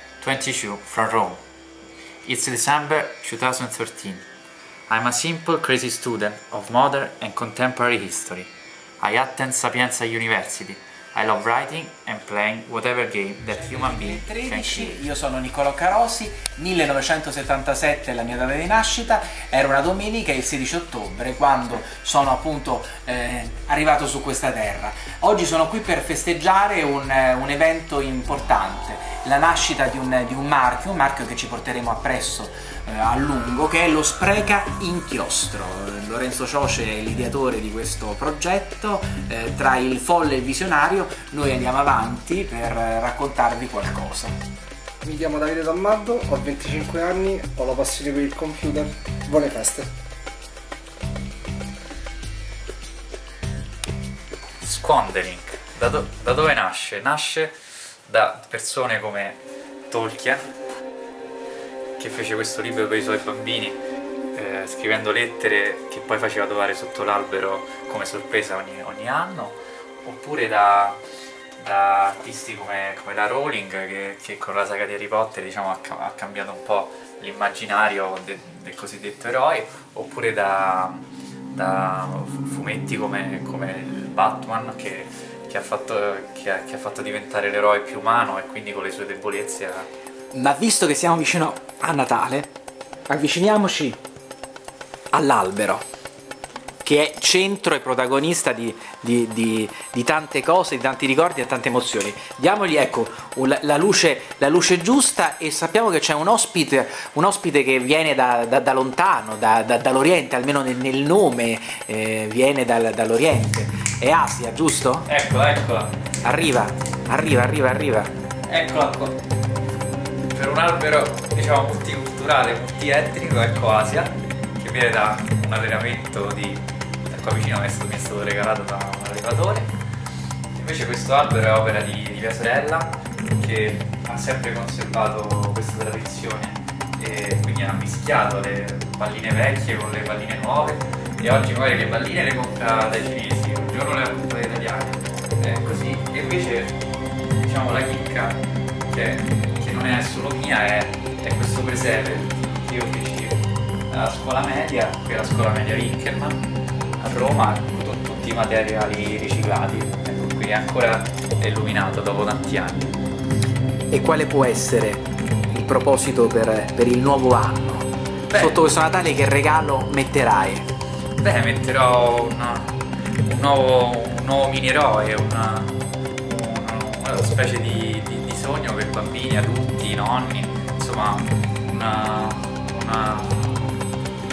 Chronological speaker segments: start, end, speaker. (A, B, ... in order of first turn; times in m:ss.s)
0:00.2-0:01.4 A
0:02.2-0:04.2 A
0:04.9-0:08.5 A
0:09.0-0:15.0 A
0:13.5-0:44.3 B
0:45.0-0:49.9 C
0:54.6-0:57.6 A
0:58.1-1:00.5 A
1:02.0-1:03.8 A
1:04.3-1:11.0 A
1:11.6-1:29.9 A
1:30.3-1:32.5 B
1:33.1-1:34.0 B
1:35.1-1:35.8 B
1:36.8-1:55.1 B
1:55.0-1:55.9 A
1:56.2-1:58.1 B
1:58.4-1:59.2 A
2:00.3-2:09.7 A
2:10.5-2:26.8 A
2:27.4-2:36.4 A
2:37.0-2:42.9 A
2:43.9-2:50.7 B
2:48.3-2:48.6 A
2:51.2-3:03.8 A